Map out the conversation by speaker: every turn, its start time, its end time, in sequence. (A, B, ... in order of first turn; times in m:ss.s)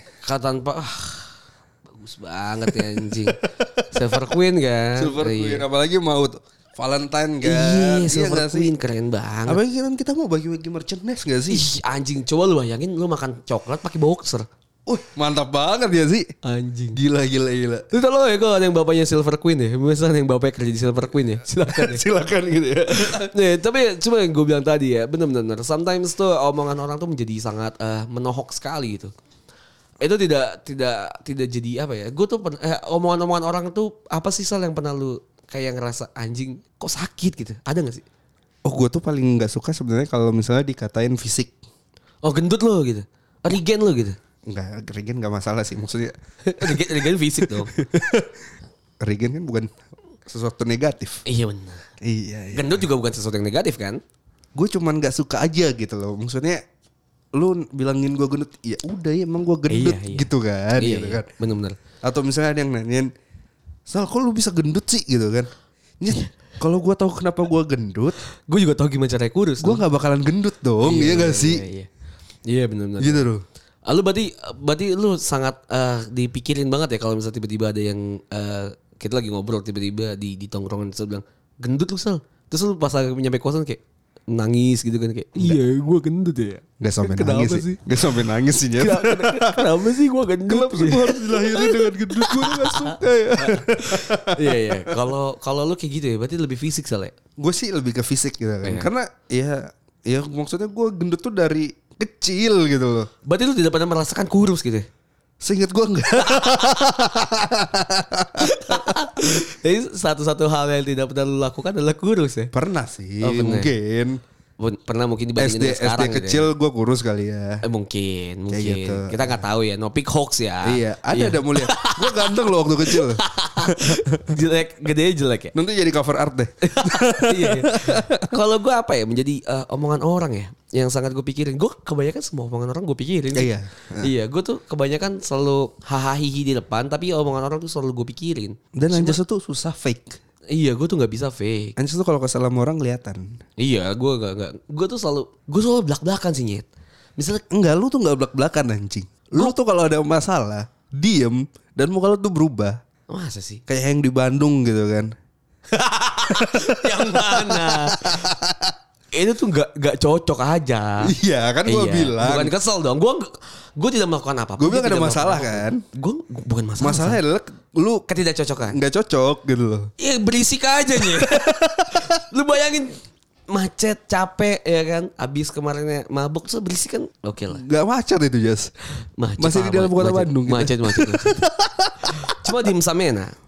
0:00.2-0:01.4 A
0:02.0-0:03.4 A
0:02.7-0:03.9 B
0:03.9-0:05.6 A
0:05.0-0:08.7 B
0:07.4-0:09.6 A
0:09.5-0:11.7 B
0:11.5-0:14.5 A
0:14.9-0:16.3 B
0:16.4-0:17.0 A
0:16.9-0:17.9 B
0:17.9-0:22.0 A
0:21.6-0:23.3 B
0:23.0-0:29.1 A
0:30.0-0:38.0 A
0:38.7-0:41.6 B
0:42.2-0:44.2 A
0:44.5-0:46.9 B
0:46.4-0:47.7 A
0:47.4-0:48.3 B
0:49.0-0:49.7 B
0:50.3-0:51.2 B
0:51.3-0:51.8 A
0:52.0-0:52.8 B
0:52.5-0:54.0 A
0:54.6-0:56.6 B
0:57.4-1:01.3 B
0:59.7-1:01.8 A
1:02.0-1:03.1 B
1:03.9-1:05.5 B
1:06.0-1:08.2 B
1:08.5-1:09.8 A
1:09.6-1:11.6 B
1:10.8-1:11.9 A
1:12.5-1:13.3 A
1:13.0-1:13.4 B
1:13.9-1:28.0 A
1:26.8-1:29.8 B
1:28.8-1:37.2 A
1:30.5-1:35.0 B
1:37.4-1:43.1 B
1:38.6-1:38.9 A
1:43.2-1:44.9 A
1:45.4-1:49.0 B
1:46.2-1:46.9 A
1:48.4-1:52.5 A
1:52.5-1:54.2 B
1:53.2-1:53.7 A
1:54.6-1:56.5 A
1:55.4-1:57.6 B
1:57.6-2:05.5 A
1:58.5-1:59.4 B
2:00.6-2:04.3 B
2:05.6-2:08.3 B
2:06.6-2:19.2 A
2:13.3-2:14.1 B
2:18.8-2:20.2 B
2:20.5-2:21.8 A
2:21.8-2:23.4 B
2:23.6-2:27.4 A
2:27.5-2:32.8 B
2:33.1-2:33.6 A
2:33.7-2:35.1 B
2:35.7-2:38.4 A
2:36.3-2:38.7 B
2:39.1-2:41.1 A
2:41.0-2:42.5 B
2:41.6-2:47.2 A
2:44.6-2:45.8 B
2:46.8-2:48.1 B
2:48.1-2:48.8 A
2:48.6-2:49.9 B
2:50.0-2:52.9 A
2:51.0-2:52.2 B
2:53.5-2:57.6 A
2:57.5-2:58.7 B
2:59.0-3:01.4 A
2:59.4-3:02.7 B
3:02.3-3:03.4 A